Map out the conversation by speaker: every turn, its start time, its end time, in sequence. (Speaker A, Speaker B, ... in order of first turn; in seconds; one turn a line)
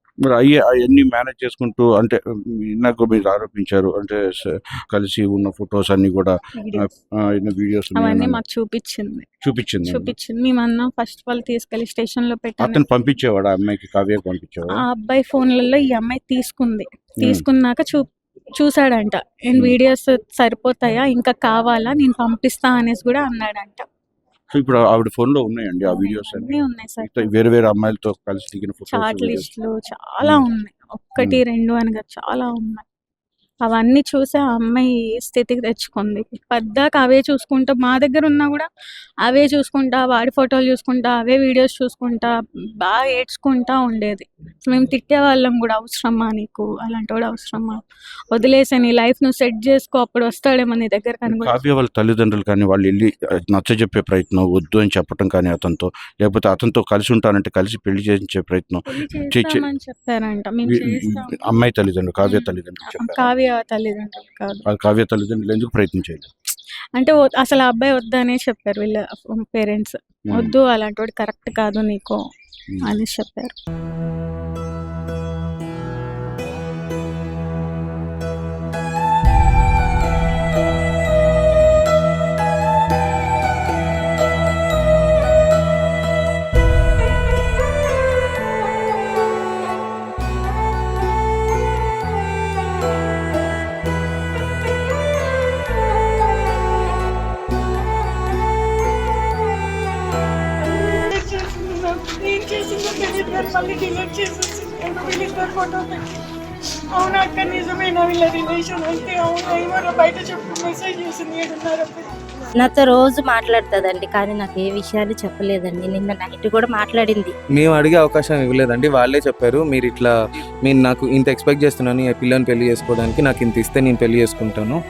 Speaker A: 0.2-8.4
Speaker B: 6.6-6.9
Speaker B: 8.0-9.3
Speaker A: 9.4-10.1
Speaker B: 9.9-12.8
Speaker A: 12.6-14.8
Speaker B: 14.7-23.9
Speaker A: 17.2-17.5
Speaker A: 24.5-29.5
Speaker B: 25.9-27.3
Speaker B: 28.9-32.8
Speaker A: 30.2-30.5
Speaker A: 31.2-31.4
Speaker B: 33.6-38.7
Speaker B: 39.2-51.6
Speaker A: 51.3-59.7
Speaker B: 58.9-61.4
Speaker A: 60.6-63.3
Speaker B: 62.2-64.7
Speaker A: 64.7-66.3
Speaker B: 67.0-72.2
Speaker B: 72.8-73.5
Speaker C: 101.1-106.1
Speaker C: 106.9-112.1
Speaker D: 112.6-117.3
Speaker E: 117.6-124.8